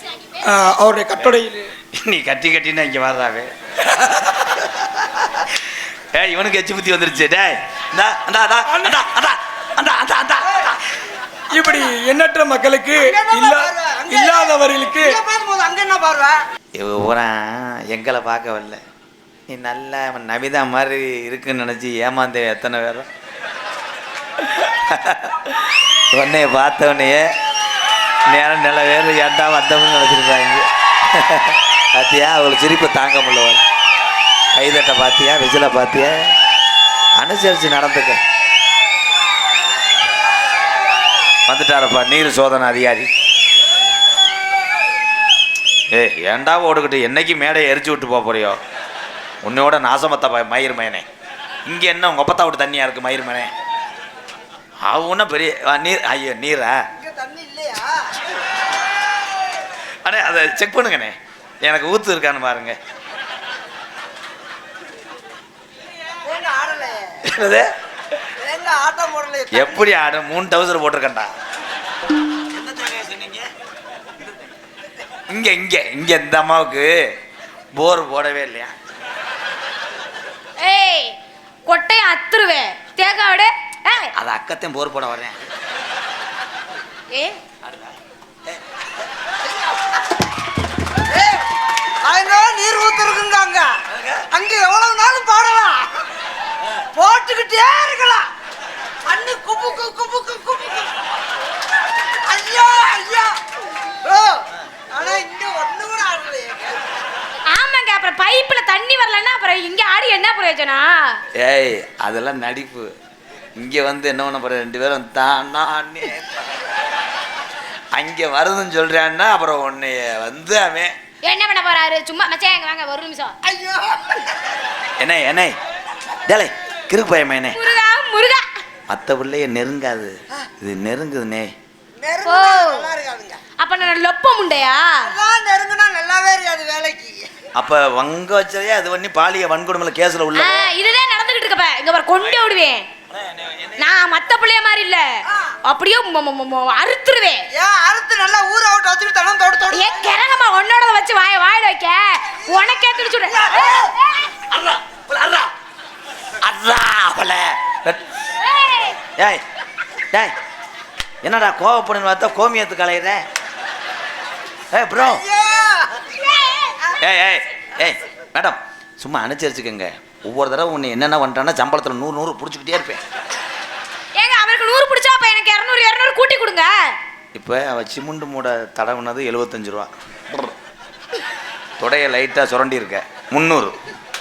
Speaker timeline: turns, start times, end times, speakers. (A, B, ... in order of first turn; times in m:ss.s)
0:00.4-0:01.7 A
0:02.0-0:03.5 B
0:04.3-0:10.8 B
0:08.7-0:09.0 A
0:11.5-0:15.2 A
0:13.0-0:16.4 C
0:16.8-0:18.8 B
0:19.5-0:23.1 B
0:24.4-0:27.3 B
0:28.3-0:33.6 B
0:34.5-0:36.3 B
0:37.2-0:38.2 B
0:41.5-0:43.1 B
0:45.9-0:48.6 B
0:49.4-0:51.1 B
0:51.6-0:53.5 B
0:54.8-0:56.8 B
0:57.0-0:58.1 C
1:00.0-1:02.8 B
1:06.2-1:07.2 C
1:07.2-1:07.7 B
1:08.4-1:09.8 C
1:09.5-1:11.3 B
1:12.5-1:13.4 B
1:15.3-1:16.9 B
1:17.8-1:18.7 B
1:20.6-1:21.2 D
1:21.7-1:24.1 D
1:24.1-1:25.4 B
1:27.1-1:27.4 D
1:31.1-1:31.4 C
1:32.0-1:33.7 C
1:34.3-1:35.9 C
1:36.9-1:38.3 C
1:39.1-1:40.9 C
1:42.2-1:43.4 C
1:44.0-1:44.4 C
1:44.9-1:46.8 C
1:47.5-1:51.2 D
1:51.4-1:52.9 B
1:53.6-1:56.5 B
1:57.9-2:00.9 B
2:01.2-2:03.4 D
2:03.4-2:04.4 C
2:05.0-2:05.6 B
2:06.3-2:07.6 B
2:07.5-2:08.5 D
2:08.9-2:11.5 B
2:12.0-2:13.4 C
2:12.2-2:12.9 D
2:13.6-2:14.9 D
2:15.0-2:17.3 C
2:17.6-2:20.7 B
2:20.4-2:22.9 D
2:23.1-2:23.9 B
2:23.8-2:27.4 D
2:25.3-2:25.5 C
2:27.5-2:30.2 C
2:29.7-2:34.3 D
2:32.4-2:33.8 C
2:34.5-2:35.5 B
2:36.4-2:38.0 B
2:38.4-2:39.0 D
2:39.2-2:39.4 B
2:41.2-2:43.2 B
2:44.7-2:45.2 B
2:45.0-2:46.0 C
2:46.2-2:46.8 D
2:47.0-2:53.0 B
2:54.2-2:56.9 D
2:57.3-3:00.6 B
3:01.8-3:03.8 B